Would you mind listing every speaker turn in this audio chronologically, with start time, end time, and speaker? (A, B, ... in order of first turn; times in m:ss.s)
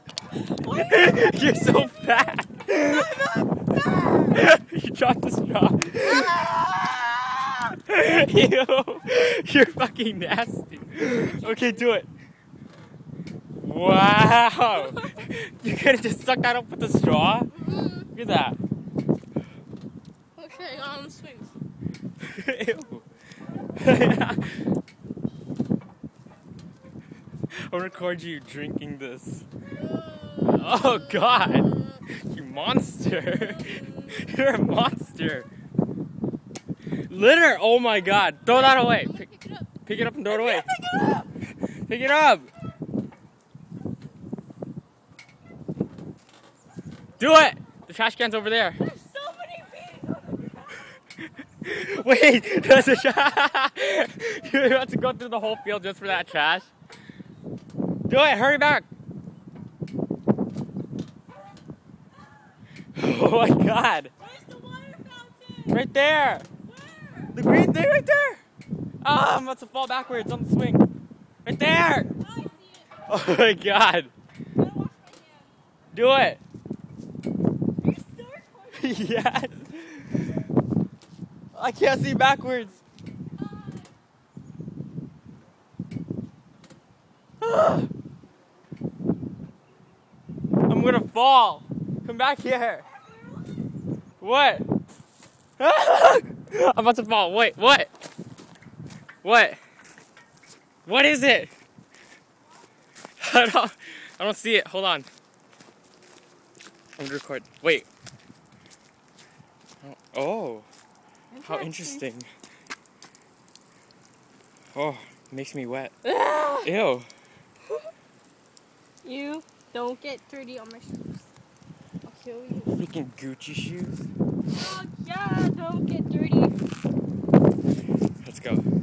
0:00.6-0:01.4 A
0:00.6-0:03.2 B
0:02.9-0:04.1 A
0:04.1-0:12.1 B
0:11.1-0:11.9 A
0:13.6-0:17.5 B
0:14.8-0:15.0 A
0:17.5-0:18.1 A
0:18.1-0:18.6 B
0:20.4-0:21.5 A
0:22.2-0:23.0 B
0:23.8-0:24.6 B
0:27.7-0:29.4 B
0:29.8-0:31.8 A
0:30.4-0:31.7 B
0:32.2-0:35.5 B
0:37.1-0:39.2 B
0:38.4-0:41.3 A
0:39.8-0:40.7 B
0:41.9-0:42.5 B
0:47.2-0:48.8 B
0:48.8-0:50.5 A
0:51.6-0:56.7 B
0:58.1-0:58.8 B
1:02.9-1:04.1 B
1:04.2-1:05.8 A
1:05.7-1:06.5 B
1:06.7-1:07.3 A
1:07.3-1:08.4 B
1:09.0-1:10.8 B
1:11.4-1:12.1 B
1:12.2-1:12.9 A
1:13.1-1:14.1 B
1:14.6-1:15.5 A
1:15.9-1:16.4 B
1:17.8-1:19.0 A
1:18.7-1:20.2 B
1:21.5-1:22.8 B
1:27.4-1:27.9 B
1:30.7-1:32.8 B
1:34.2-1:34.6 B
1:35.6-1:37.9 B
1:39.2-1:39.6 B
1:40.8-1:41.5 B
1:43.2-1:45.1 B
1:47.0-1:47.9 B
1:49.8-1:50.7 B
1:51.3-1:52.0 A
1:51.4-1:52.3 B
1:54.7-1:55.9 B
1:56.0-1:56.7 A
1:56.6-1:57.1 B
1:59.0-2:01.3 A
2:02.0-2:02.8 A
2:02.7-2:04.0 B
2:04.5-2:06.5 A
2:08.2-2:08.6 B